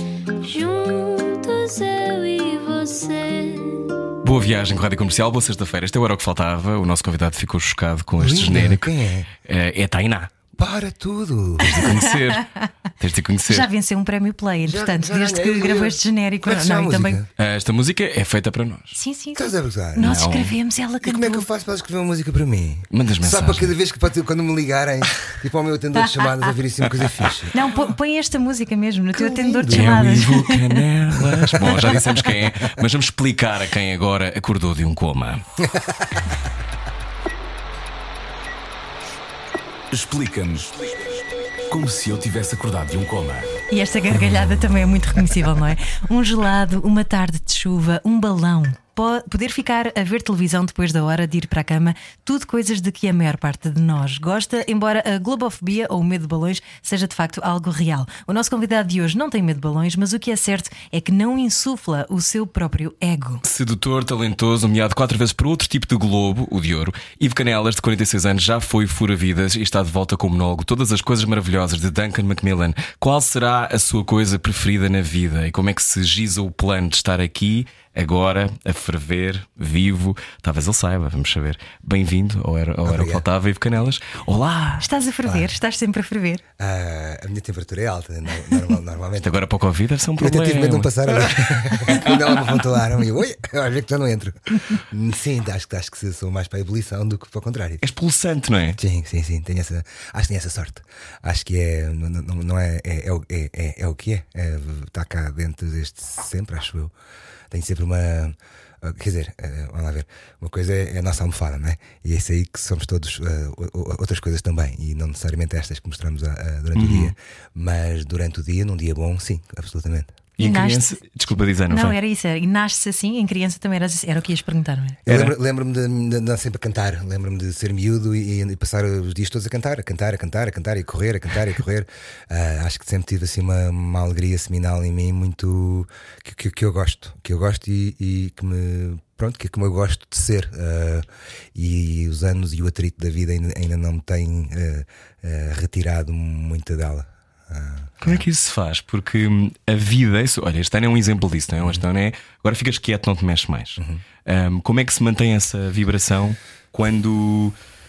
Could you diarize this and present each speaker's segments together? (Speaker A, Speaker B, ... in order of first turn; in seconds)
Speaker A: 0.4-4.0
Speaker B: 4.2-10.3, 11.7-13.7, 17.4-19.0, 20.0-20.6, 22.9-23.7, 29.7-35.4, 63.4-84.8, 89.2-92.2, 97.8-98.8, 116.7-117.1, 120.4-122.0, 125.1-125.3, 148.0-157.6
Speaker C: 8.2-9.3, 10.6-12.0, 14.6-17.3, 19.3-20.1, 21.0-27.6, 29.1-30.4, 31.2-32.8, 35.6-36.2, 82.8-83.2, 86.6-89.4, 90.2-97.9, 98.8-106.9, 107.5-120.2, 125.0-148.2, 153.8-154.0
Speaker D: 13.5-17.2, 18.9-21.4, 27.5-30.6, 43.7-63.4, 84.8-86.4, 120.4-121.0, 121.7-125.0
Speaker E: 39.9-40.8, 41.7-43.5